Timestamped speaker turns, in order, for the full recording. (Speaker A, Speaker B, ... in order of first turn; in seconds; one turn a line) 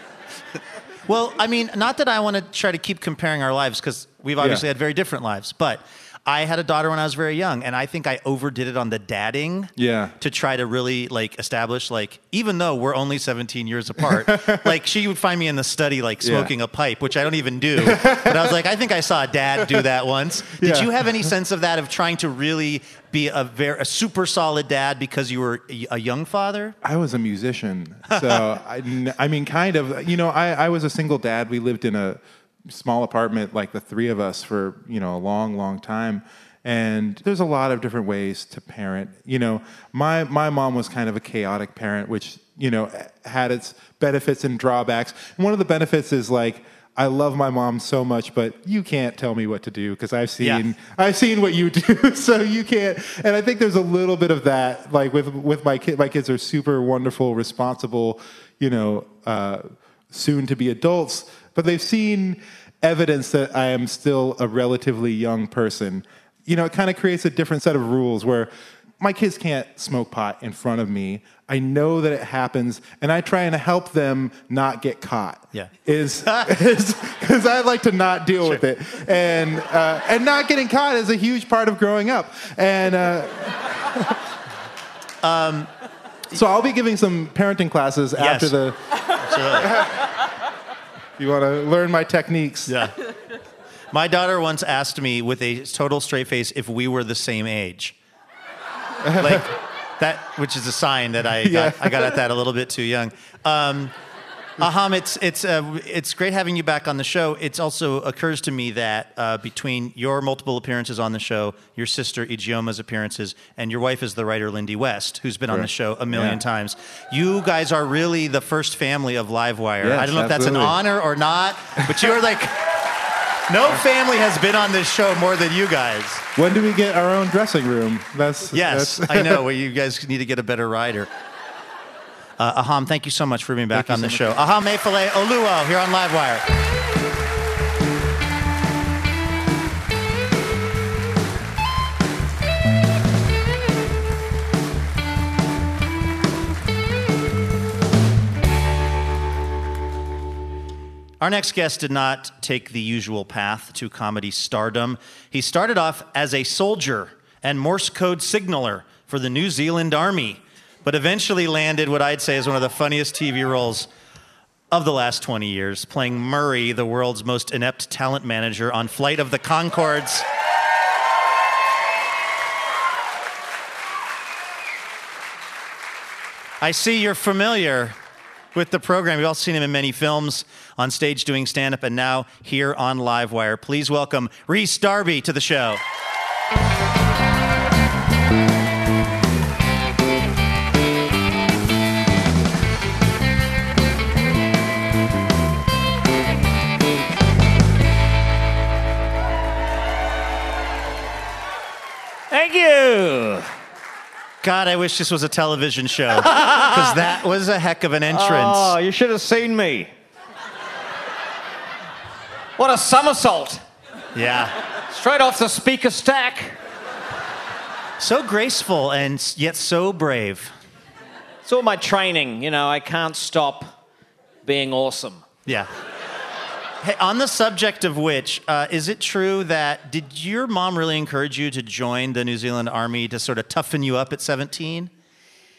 Speaker A: 1.1-26.8
Speaker B: 9.8-10.2
Speaker B: 14.2-14.7
Speaker B: 16.2-16.5
Speaker B: 17.8-18.5
Speaker B: 20.5-21.3
Speaker B: 26.8-84.1
Speaker A: 28.1-28.4
Speaker A: 76.2-76.5
Speaker A: 85.2-85.7
Speaker B: 86.3-88.8
Speaker A: 88.2-88.6
Speaker A: 89.2-89.9
Speaker B: 89.4-90.0
Speaker B: 91.2-92.9
Speaker A: 92.7-93.0
Speaker A: 93.9-98.0
Speaker B: 99.0-99.4
Speaker A: 99.2-103.9
Speaker B: 101.4-102.2
Speaker A: 104.6-122.9
Speaker B: 115.5-116.4
Speaker B: 119.8-120.8
Speaker A: 123.5-126.3
Speaker B: 126.4-129.4
Speaker A: 128.5-131.1
Speaker A: 132.4-136.5
Speaker B: 133.7-134.4
Speaker A: 151.2-163.9
Speaker A: 164.7-170.3
Speaker A: 176.6-178.0
Speaker A: 178.5-185.8
Speaker C: 202.3-203.5
Speaker A: 204.4-208.8
Speaker C: 206.2-207.0
Speaker C: 208.1-209.9
Speaker C: 212.6-213.6
Speaker A: 214.1-214.6
Speaker C: 214.9-216.6
Speaker A: 218.0-220.6
Speaker C: 221.4-223.7
Speaker C: 224.4-225.3
Speaker A: 226.8-234.9